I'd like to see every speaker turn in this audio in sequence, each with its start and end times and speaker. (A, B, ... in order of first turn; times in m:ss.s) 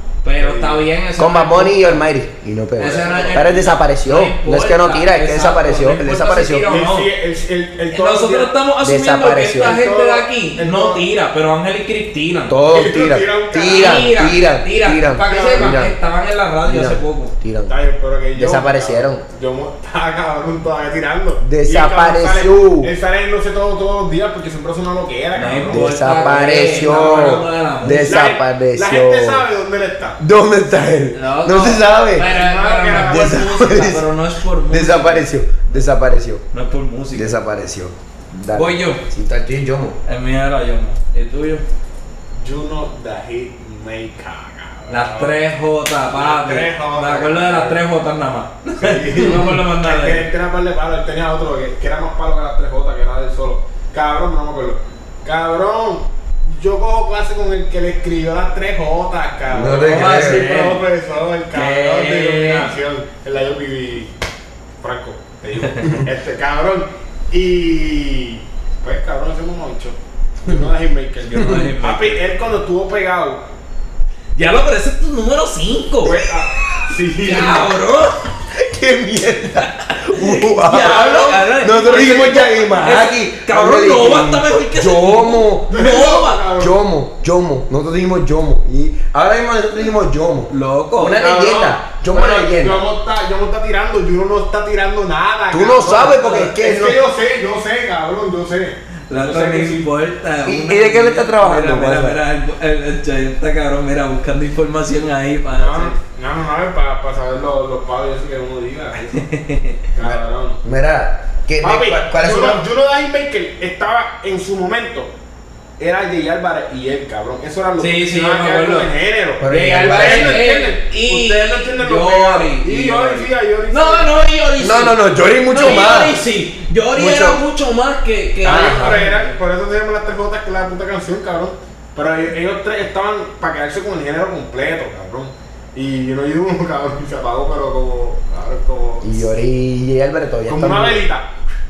0:00.2-0:02.0 A
0:00.4-0:00.9 B
0:01.2-0:06.7 C
0:02.8-0:07.1 A
0:02.8-0:03.4 B
0:06.6-0:08.5 B
0:07.9-0:12.6 A
0:08.8-0:09.8 C
0:09.5-0:11.0 B
0:12.5-0:15.9 C
0:12.7-0:14.2 B
0:13.6-0:17.3 A
0:15.2-0:15.8 B
0:16.6-0:17.7 C
0:17.7-0:26.3 B
0:18.3-0:19.2 C
0:21.4-0:22.9 C
0:25.3-0:28.2 A
0:25.7-0:29.4 C
0:28.0-0:30.2 B
0:30.2-0:32.3 C
0:31.1-0:35.9 A
0:32.2-0:33.8 B
0:32.9-0:34.1 C
0:34.7-0:36.4 C
0:36.5-0:37.4 A
0:37.1-0:40.0 C
0:38.5-0:39.0 A
0:40.0-0:41.6 A
0:42.4-0:45.4 B
0:44.9-0:50.2 A
0:46.1-0:47.8 B
0:48.8-1:04.1 B
0:59.5-1:00.5 C
0:59.8-1:00.8 A
1:01.5-1:02.7 A
1:04.8-1:13.4 B
1:05.6-1:06.0 A
1:11.3-1:12.3 A
1:14.4-1:16.2 A
1:16.0-1:17.7 B
1:16.8-1:18.3 A
1:18.5-1:32.8 C
1:19.6-1:26.4 A
1:20.7-1:22.9 B
1:25.7-1:26.8 B
1:30.5-1:31.3 A
1:31.2-1:39.9 B
1:35.5-1:37.0 C
1:36.1-1:36.4 A
1:39.1-1:46.0 A
1:40.4-1:42.2 C
1:45.5-1:49.3 B
1:49.1-1:49.8 A
1:49.9-1:50.6 B
1:50.0-1:52.6 C
1:51.6-1:55.1 B
1:55.8-2:04.2 B
1:57.8-1:58.9 A
1:59.4-2:00.5 C
1:59.5-2:09.3 A
2:04.6-2:06.2 C
2:05.5-2:06.1 B
2:06.9-2:07.4 C
2:08.4-2:09.0 C
2:08.4-2:19.3 B
2:19.0-2:21.0 C
2:20.5-2:21.3 B